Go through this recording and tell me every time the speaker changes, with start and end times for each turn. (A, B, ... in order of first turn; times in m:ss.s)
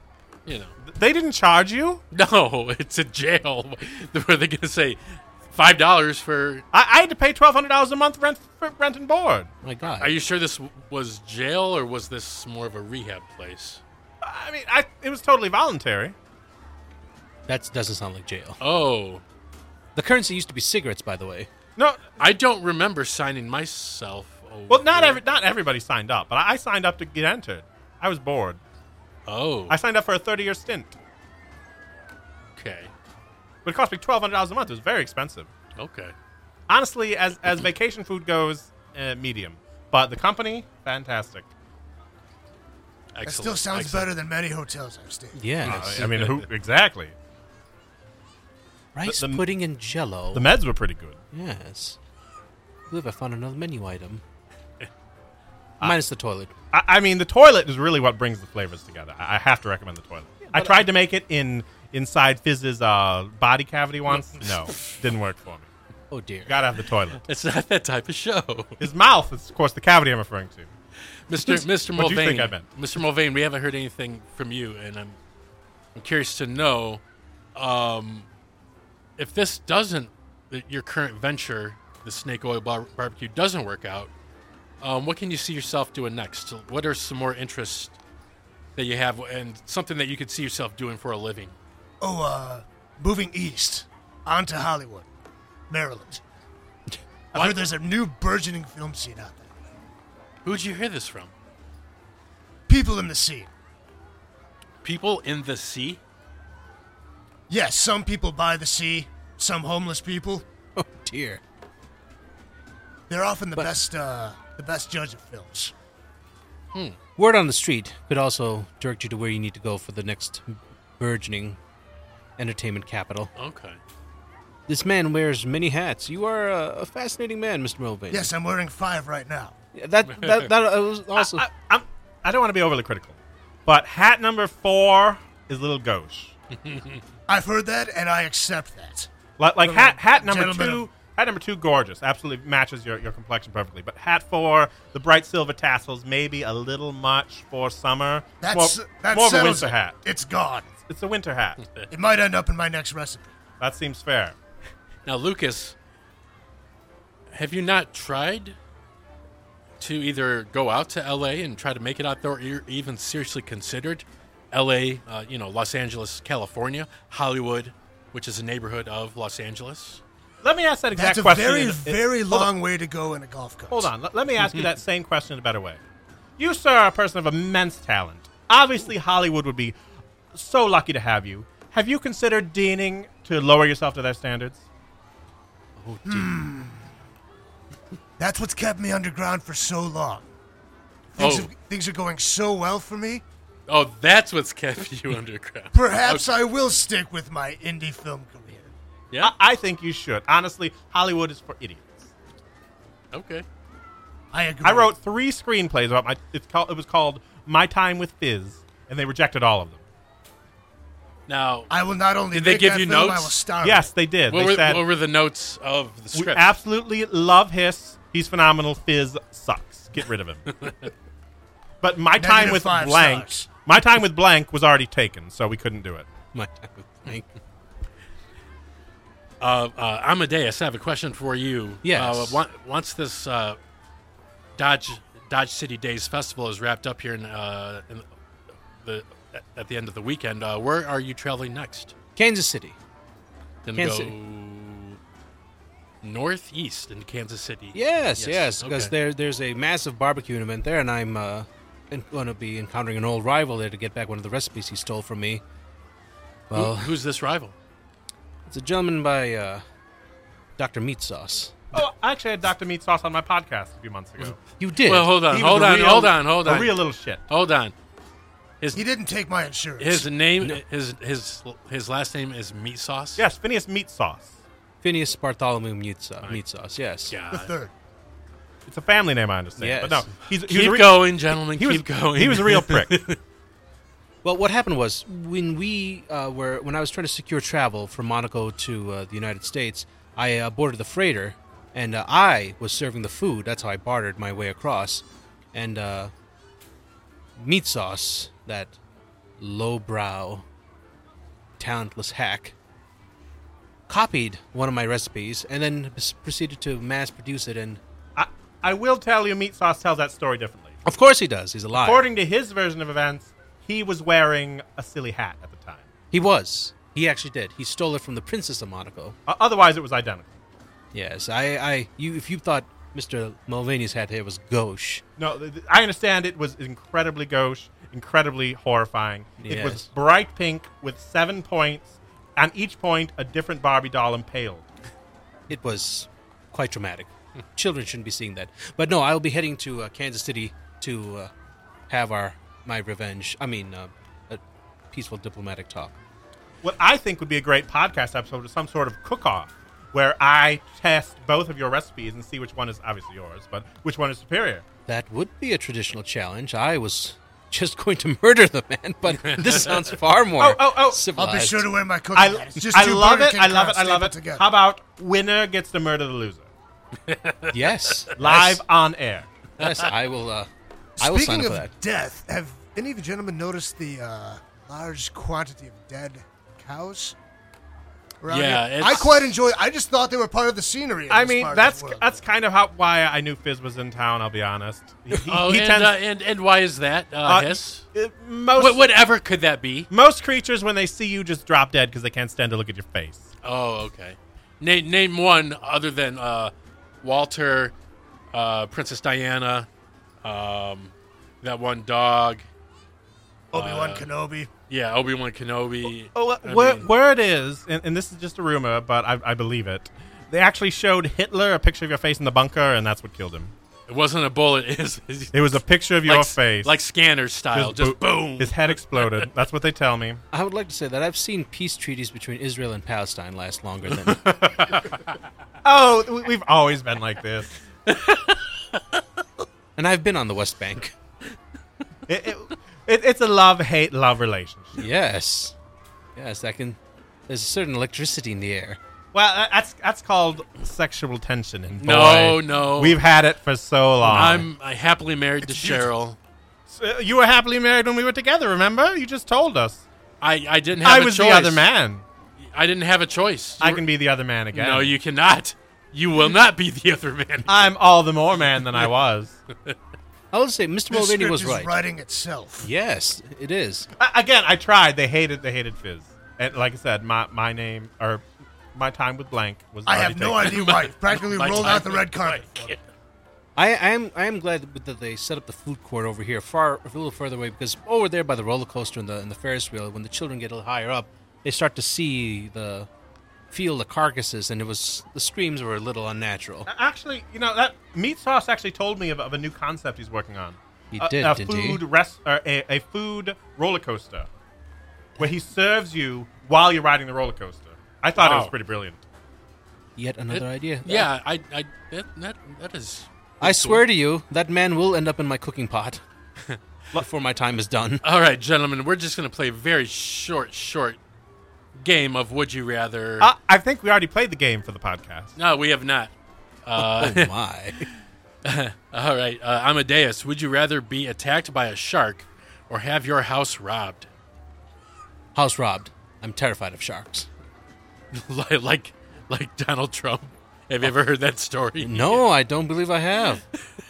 0:00.4-0:00.7 A
0:00.8-0:02.0 B
0:02.1-0:06.6 A
0:06.7-0:09.5 B
0:09.6-0:10.2 C
0:10.0-0:13.8 A
0:14.2-0:16.1 B
0:17.5-0:18.6 C
0:18.6-0:19.2 A
0:19.9-0:21.5 C
0:21.8-0:22.1 B
0:22.2-0:25.2 A
0:24.7-0:28.6 B
0:29.3-0:29.8 A
0:29.7-0:31.0 B
0:32.6-0:32.9 A
0:33.6-0:35.5 B
0:35.8-0:36.1 A
0:36.7-0:41.5 B
0:43.1-0:44.1 A
0:43.2-0:45.6 D
0:45.3-0:46.1 C
0:45.6-0:47.1 B
0:45.6-0:46.5 A
0:48.9-0:50.5 C
0:49.0-0:49.4 B
0:50.3-0:51.2 B
0:51.3-0:52.0 C
0:52.9-0:54.2 C
0:55.8-0:56.5 C
0:56.7-1:05.7 B
1:00.5-1:00.8 C
1:04.3-1:04.9 A
1:06.1-1:06.5 C
1:06.5-1:07.2 B
1:07.2-1:08.8 A
1:08.8-1:10.7 B
1:11.3-1:15.2 A
1:11.4-1:12.6 B
1:15.9-1:17.0 A
1:17.5-1:18.3 A
1:19.2-1:24.1 A
1:24.8-1:28.0 A
1:28.8-1:31.6 A
1:32.0-1:35.1 D
1:35.7-1:36.2 D
1:37.3-1:37.6 A
1:37.3-1:39.6 D
1:40.4-1:41.3 A
1:42.7-1:43.5 D
1:44.8-1:46.0 A
1:47.5-1:50.4 D
1:50.8-1:51.4 C
1:53.1-1:55.7 D
1:57.2-2:01.6 C
2:02.4-2:03.3 C
2:03.4-2:03.8 A
2:04.7-2:08.3 C
2:08.1-2:09.5 D
2:09.7-2:11.4 C
2:10.1-2:10.5 A
2:11.2-2:16.3 B
2:16.5-2:17.0 A
2:17.3-2:19.1 D
2:19.4-2:30.0 B
2:19.6-2:20.8 D
2:28.4-2:30.7 D
2:30.8-2:31.6 B
2:31.9-2:33.3 D
2:33.6-2:34.4 B
2:35.0-2:35.7 A
2:37.3-2:38.6 A
2:39.8-2:50.0 A
2:50.4-2:52.5 B
2:50.9-2:53.9 D
2:53.7-2:55.8 B
2:56.4-2:59.7 B
3:00.3-3:04.6 B
3:05.8-3:06.4 C
3:06.0-3:06.8 D
3:08.2-3:10.3 D
3:11.1-3:13.2 D
3:11.2-3:11.5 A
3:13.7-3:16.3 A
3:15.7-3:18.7 D
3:19.2-3:22.1 B
3:23.1-3:23.4 A
3:24.3-3:24.9 D
3:24.6-3:29.8 B
3:31.3-3:31.7 A
3:31.7-3:33.9 D
3:32.3-3:33.4 A
3:33.6-3:34.8 B
3:34.3-3:36.5 A
3:36.1-3:40.6 B
3:40.6-3:40.9 A
3:41.8-3:46.0 B
3:42.2-3:43.5 D
3:46.3-3:47.3 C
3:49.4-3:53.6 A
3:51.8-3:52.4 C
3:54.6-3:58.1 A
3:58.8-4:01.9 A
4:02.2-4:02.8 C
4:03.6-4:05.0 A
4:03.7-4:04.1 C
4:06.0-4:08.9 A
4:07.7-4:15.4 C
4:16.5-4:16.9 C
4:16.5-4:17.6 A
4:18.4-4:19.6 C
4:20.6-4:21.6 C
4:21.7-4:24.4 B
4:24.6-4:25.1 C
4:24.8-4:27.7 A
4:25.3-4:27.2 B
4:28.7-4:30.1 D
4:29.8-4:33.2 A
4:33.2-4:34.3 B
4:34.8-4:37.1 C
4:37.1-4:37.5 A
4:37.3-4:37.7 D
4:38.7-4:42.9 B
4:39.6-4:40.1 C
4:40.4-4:43.2 A
4:44.2-4:56.1 C
4:57.4-4:58.7 C
4:59.4-5:00.4 C
5:01.6-5:02.5 C
5:03.9-5:07.8 C
5:08.2-5:10.8 B
5:10.8-5:12.0 C
5:11.7-5:15.9 B
5:16.1-5:19.2 C
5:19.3-5:20.3 B
5:20.9-5:25.0 C
5:25.2-5:34.6 B
5:29.4-5:29.8 C
5:35.5-5:41.3 C
5:41.9-5:46.0 C
5:46.6-5:54.6 B
5:54.9-6:01.7 C
5:59.2-5:59.8 A
6:00.4-6:01.1 B
6:01.2-6:04.4 D
6:02.1-6:06.5 B
6:07.0-6:08.1 A
6:07.5-6:08.3 C
6:08.2-6:09.3 B
6:08.2-6:08.5 D
6:09.6-6:11.7 C
6:09.6-6:09.9 A
6:11.0-6:17.2 D
6:18.2-6:22.1 D
6:18.3-6:19.3 A
6:21.1-6:25.9 B
6:25.2-6:27.8 A
6:27.2-6:28.8 B
6:28.6-6:29.9 A
6:29.9-6:33.2 B
6:33.4-6:37.7 A
6:38.3-6:39.7 A
6:40.2-6:42.4 A
6:43.5-6:44.5 D
6:43.5-6:44.1 A
6:44.7-6:46.9 A
6:46.1-6:53.5 B
6:53.9-6:59.2 A
6:55.3-6:56.8 B
6:57.5-7:00.2 B
7:00.3-7:04.2 C
7:04.2-7:05.1 A
7:05.6-7:07.6 B
7:07.9-7:09.0 A
7:09.8-7:10.9 C
7:12.1-7:14.8 B
7:14.8-7:15.5 C
7:16.2-7:18.8 C
7:19.1-7:24.5 B
7:21.8-7:23.0 A
7:24.0-7:26.2 A
7:25.4-7:25.8 B
7:26.7-7:29.8 B
7:30.2-7:31.6 A
7:30.8-7:32.0 B
7:32.4-7:33.8 A
7:33.6-7:34.9 B
7:34.5-7:37.6 A
7:37.5-7:39.4 B
7:40.3-7:41.7 C
7:40.9-7:42.7 D
7:42.6-7:43.9 C
7:44.0-7:48.2 B
7:48.7-7:50.7 B
7:49.9-7:52.7 D
7:50.4-7:52.8 A
7:53.6-8:02.9 C
8:03.5-8:06.7 C
8:06.7-8:14.3 B
8:10.9-8:11.8 C
8:15.2-8:19.0 B
8:18.2-8:18.5 A
8:20.0-8:21.1 C
8:20.3-8:23.8 A
8:23.4-8:26.0 C
8:26.9-8:28.0 C
8:28.0-8:31.0 A
8:31.7-8:33.3 A
8:33.2-8:35.3 B
8:35.4-8:36.1 A
8:36.6-8:37.9 A
8:36.8-8:37.9 C
8:38.4-8:44.1 A
8:45.3-8:47.3 C
8:48.1-8:52.2 A
8:51.8-8:53.4 C